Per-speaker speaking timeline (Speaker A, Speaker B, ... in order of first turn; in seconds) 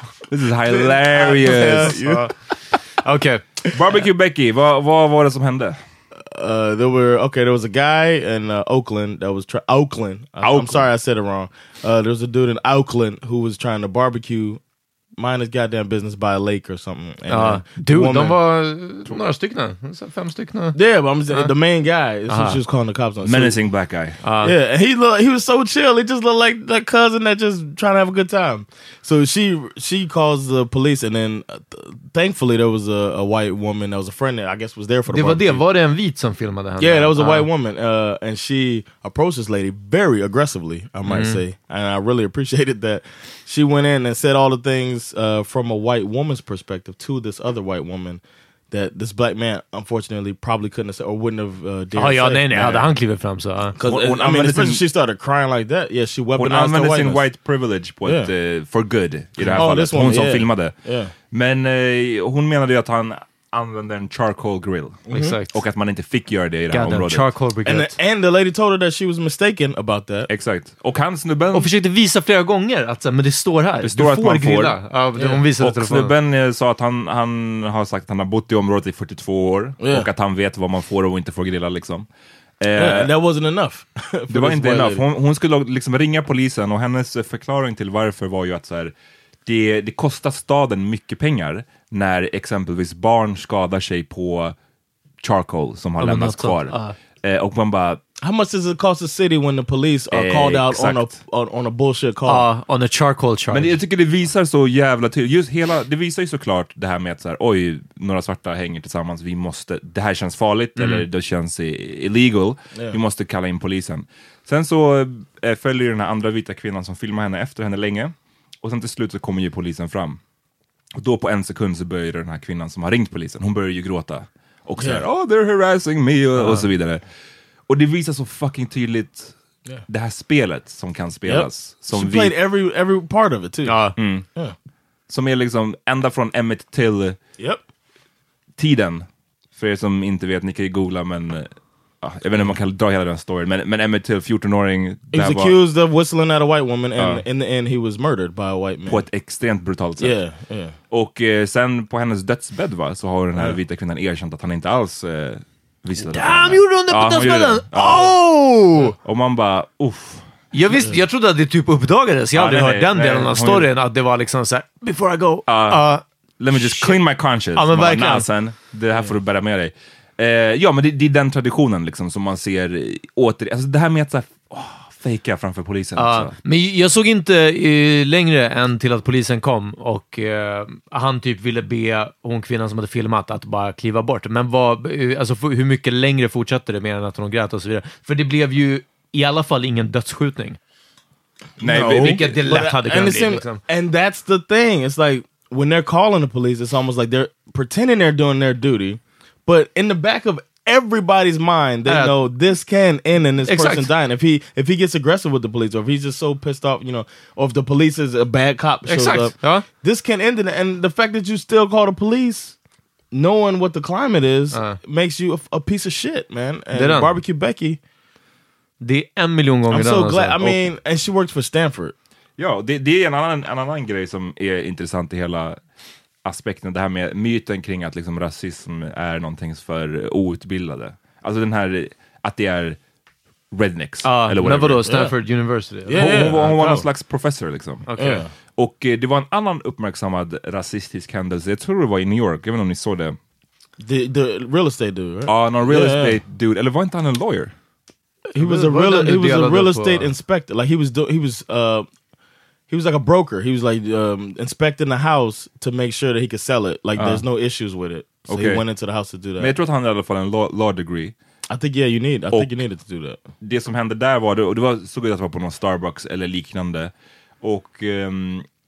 Speaker A: 0.3-2.0, 3.7-5.8, 10.4-10.9, 23.2-24.2, 53.8-54.8, 56.4-60.8, 61.3-67.3, 70.3-71.7, 73.8-74.8, 75.6-82.1, 82.6-83.1, 84.3-88.9, 89.5-94.5, 95.2-98.0, 100.1-101.1, 103.5-120.2, 121.0-127.0, 127.7-129.3, 129.9-132.3, 134.0-134.3, 135.1-137.2, 138.6-141.5, 142.0-145.6, 147.0-147.2, 148.9-150.2, 150.9-158.2, 159.0-160.3, 162.3-163.7, 165.5-165.8, 166.4-176.3, 191.6-192.4, 222.4-225.6, 226.2-232.8, 233.5-234.9, 236.0-237.9, 238.5-243.2, 245.3-247.5, 257.0-257.2, 258.3-258.6, 259.4-261.1, 263.4-268.5
Speaker B: 0.7-2.3, 6.3-14.6, 15.2-18.4, 20.7-23.6, 24.4-35.6, 36.8-52.8, 53.8-57.2, 58.0-58.3, 59.5-61.1, 65.1-65.4, 67.7-70.3, 75.2-75.4, 79.8-80.1, 82.8-85.0, 98.2-102.5, 124.8-125.0, 131.3-134.6, 145.1-149.0, 150.0-150.8, 191.6-212.6, 213.1-217.8, 219.7-221.9, 234.9-235.1, 235.9-236.8, 238.0-238.3, 243.8-246.2, 248.3-251.9, 252.7-259.5, 261.5-263.2
Speaker C: 1.8-3.4, 17.3-20.8, 22.3-22.6, 24.2-24.6, 35.1-37.5, 41.0-41.4, 52.0-53.8, 59.4-59.7, 65.1-65.6, 66.7-68.0, 71.5-76.1, 96.0-97.0, 102.3-103.8, 110.8-111.1, 126.4-126.7, 133.7-134.0, 156.1-159.0, 160.5-167.0, 167.6-168.3, 176.0-190.6, 191.9-193.6, 201.9-202.2, 203.4-203.9, 208.9-209.7, 214.5-214.8, 216.7-217.1, 218.8-220.7, 234.0-236.8, 237.9-238.2, 248.4-250.1